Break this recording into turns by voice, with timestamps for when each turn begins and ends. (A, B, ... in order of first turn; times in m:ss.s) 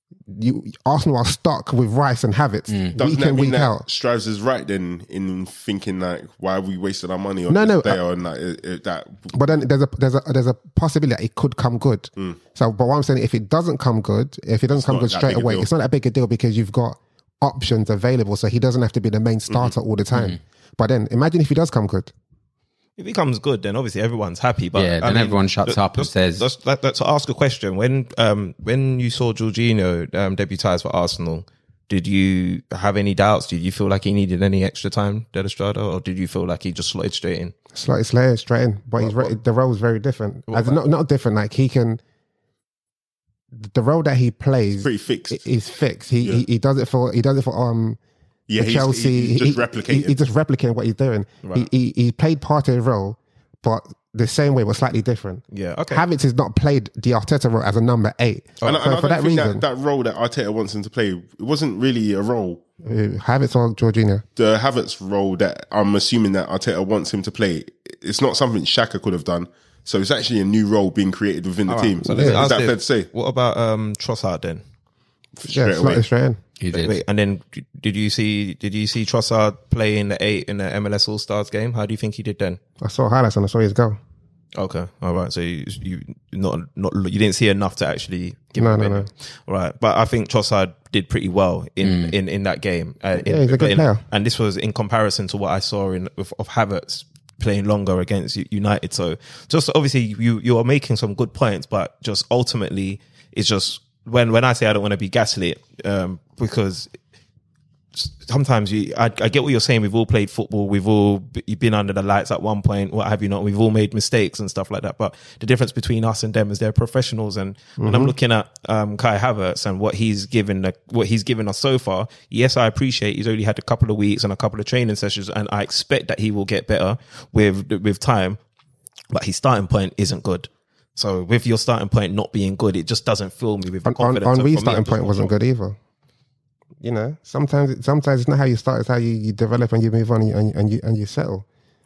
0:00.3-0:03.8 A
0:02.7-0:02.9 B
0:03.0-0:09.3 C
0:07.5-0:08.0 A
0:09.3-0:22.1 A
0:14.8-0:15.7 C
0:19.5-0:19.7 C
0:20.1-0:20.4 B
0:23.0-0:37.5 D
0:24.8-0:26.4 B
0:37.7-0:42.0 A
0:39.0-0:39.3 C
0:40.5-0:40.8 D
0:43.6-0:48.0 A
0:44.8-0:45.5 C
0:48.5-0:50.2 C
0:48.6-0:59.6 A
0:51.4-0:51.7 D
0:55.5-0:56.1 D
0:58.6-1:02.6 C
1:02.8-1:04.2 A
1:04.4-1:13.1 C
1:11.7-1:14.6 D
1:12.1-1:12.5 A
1:15.4-1:16.0 C
1:15.5-1:16.4 A
1:16.6-1:17.0 B
1:16.7-1:22.6 D
1:22.8-1:24.0 A
1:24.6-1:46.9 D
1:28.6-1:29.1 A
1:31.8-1:32.1 B
1:33.2-1:34.0 A
1:48.0-2:08.4 D
1:57.8-1:58.1 A
2:09.1-2:15.3 D
2:13.8-2:15.8 A
2:16.8-2:21.4 A